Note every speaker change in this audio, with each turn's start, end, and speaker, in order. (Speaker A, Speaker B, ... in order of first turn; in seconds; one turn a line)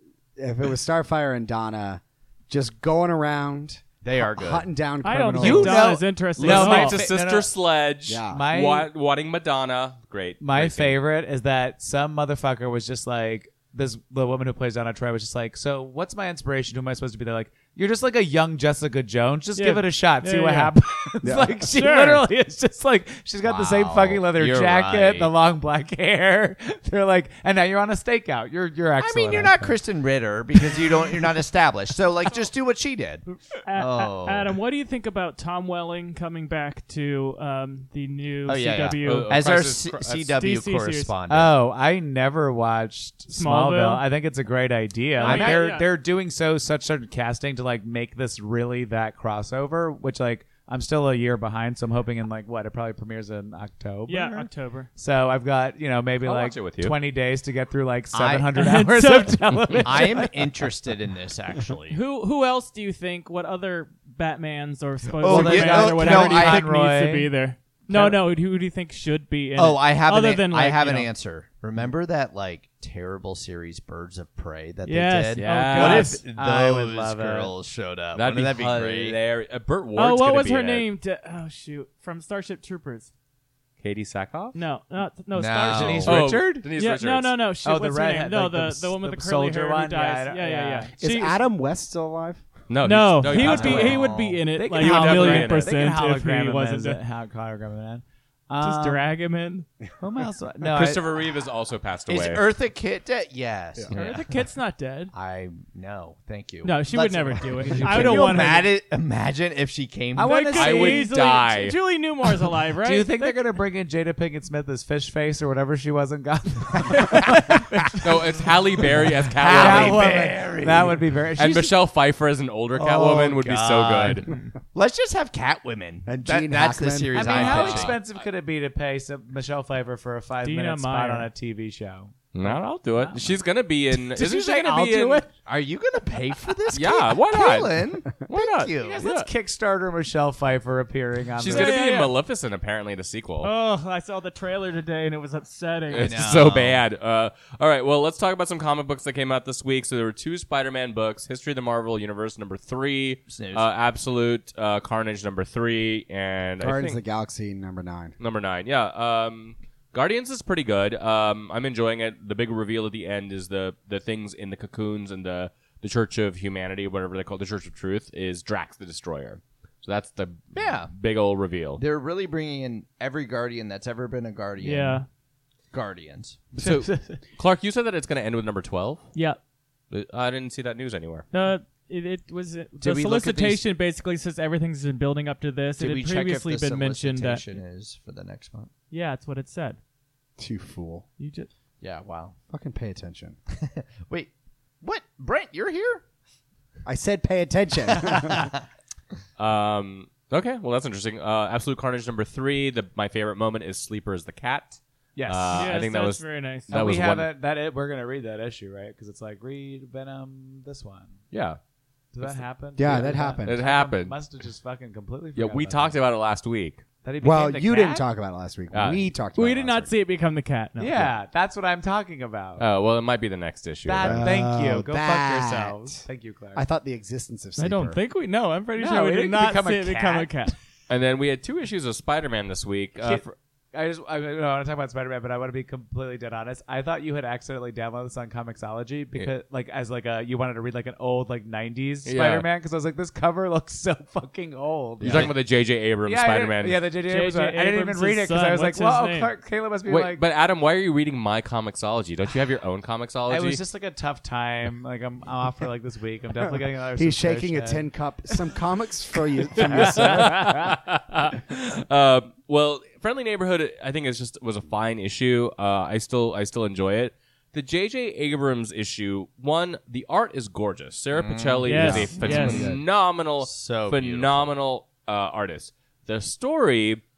Speaker A: 0.3-5.8
Speaker B: 4.0-4.7
Speaker C: 5.0-7.0
Speaker D: 5.3-7.5
Speaker E: 6.4-11.0
Speaker A: 8.1-8.4
Speaker D: 8.2-8.9
Speaker D: 10.4-29.8
Speaker C: 19.6-20.8
Speaker A: 21.2-21.6
Speaker C: 21.7-22.3
Speaker B: 23.4-25.3
Speaker B: 29.0-33.2
Speaker D: 30.7-31.1
Speaker C: 33.3-39.4
Speaker B: 33.8-34.5
Speaker B: 38.5-41.5
Speaker E: 39.0-40.4
Speaker C: 40.3-41.1
Speaker D: 41.3-60.3
Speaker C: 43.3-44.0
Speaker C: 45.1-45.9
Speaker B: 45.2-45.6
Speaker C: 54.1-54.9
Speaker E: 56.2-56.9
Speaker B: 58.1-58.5
Speaker C: 58.5-60.3
Speaker B: 59.9-62.0
Speaker C: 61.9-71.1
Speaker B: 65.2-66.7
Speaker D: 65.2-67.3
Speaker B: 69.5-79.2
Speaker C: 74.8-76.2
Speaker E: 75.3-76.2
Speaker D: 76.2-77.5
Speaker E: 78.1-80.9
Speaker C: 80.0-83.1
Speaker E: 83.8-84.6
Speaker C: 84.5-91.3
Speaker B: 85.3-86.3
Speaker D: 85.6-86.7
Speaker E: 86.0-87.3
Speaker D: 87.6-90.9
Speaker A: 91.0-92.5
Speaker E: 92.7-94.2
Speaker C: 92.8-97.0
Speaker B: 93.3-94.2
Speaker D: 93.4-99.1
Speaker E: 94.7-95.7
Speaker C: 98.6-99.7
Speaker D: 100.0-101.0
Speaker E: 100.7-102.4
Speaker B: 102.1-104.5
Speaker C: 103.9-105.1
Speaker B: 105.1-110.5
Speaker C: 106.6-108.6
Speaker D: 107.6-108.7
Speaker D: 110.1-111.1
Speaker C: 110.2-113.4
Speaker E: 110.5-111.8
Speaker D: 112.8-118.0
Speaker C: 116.9-117.7
Speaker E: 118.0-120.3
Speaker B: 119.3-121.0
Speaker D: 119.5-121.7
Speaker E: 121.4-124.3
Speaker B: 122.7-128.0
Speaker C: 124.3-124.5
Speaker A: 126.0-127.9
Speaker D: 127.1-133.3
Speaker C: 130.4-131.3
Speaker E: 132.3-135.3
Speaker D: 133.9-135.3
Speaker B: 135.4-139.0
Speaker E: 136.7-139.3
Speaker D: 138.8-141.8
Speaker E: 141.4-143.5
Speaker C: 141.5-142.1
Speaker C: 143.4-146.4
Speaker E: 145.9-157.0
Speaker B: 146.0-146.8
Speaker B: 153.3-153.6
Speaker A: 156.6-158.1
Speaker E: 158.2-171.8
Speaker B: 170.5-170.9
Speaker B: 171.8-175.0
Speaker C: 174.6-175.1
Speaker B: 175.7-176.5
Speaker E: 176.5-179.1
Speaker D: 176.6-177.2
Speaker C: 179.1-179.4
Speaker E: 179.9-181.3
Speaker C: 181.3-187.4
Speaker B: 182.8-183.6
Speaker B: 185.8-188.7
Speaker C: 188.9-189.8
Speaker A: 190.4-191.1
Speaker C: 191.2-191.5
Speaker B: 191.8-192.3
Speaker A: 192.5-193.4
Speaker B: 193.6-196.0
Speaker A: 196.8-198.5
Speaker E: 199.4-207.3
Speaker D: 205.1-205.8
Speaker C: 205.5-206.7
Speaker D: 206.7-211.2
Speaker E: 211.3-211.6
Speaker D: 212.1-216.0
Speaker E: 212.2-214.2
Speaker A: 212.8-213.6
Speaker E: 215.3-216.8
Speaker D: 217.0-218.1
Speaker A: 217.2-219.9
Speaker E: 218.7-219.0
Speaker C: 219.3-221.1
Speaker D: 220.8-222.6
Speaker E: 222.6-224.3
Speaker D: 223.8-226.6
Speaker A: 224.0-228.0
Speaker C: 227.6-230.5
Speaker D: 228.8-230.5
Speaker E: 230.9-233.3
Speaker D: 233.0-245.4
Speaker E: 242.0-242.5
Speaker A: 245.0-245.3
Speaker E: 245.0-246.8
Speaker D: 246.0-250.2
Speaker C: 247.0-249.3
Speaker E: 249.9-253.6
Speaker D: 253.3-257.9
Speaker A: 256.9-260.6
Speaker D: 259.6-260.5
Speaker E: 259.8-277.0
Speaker B: 271.1-272.8
Speaker C: 271.6-272.6
Speaker A: 271.7-272.8
Speaker B: 273.4-274.5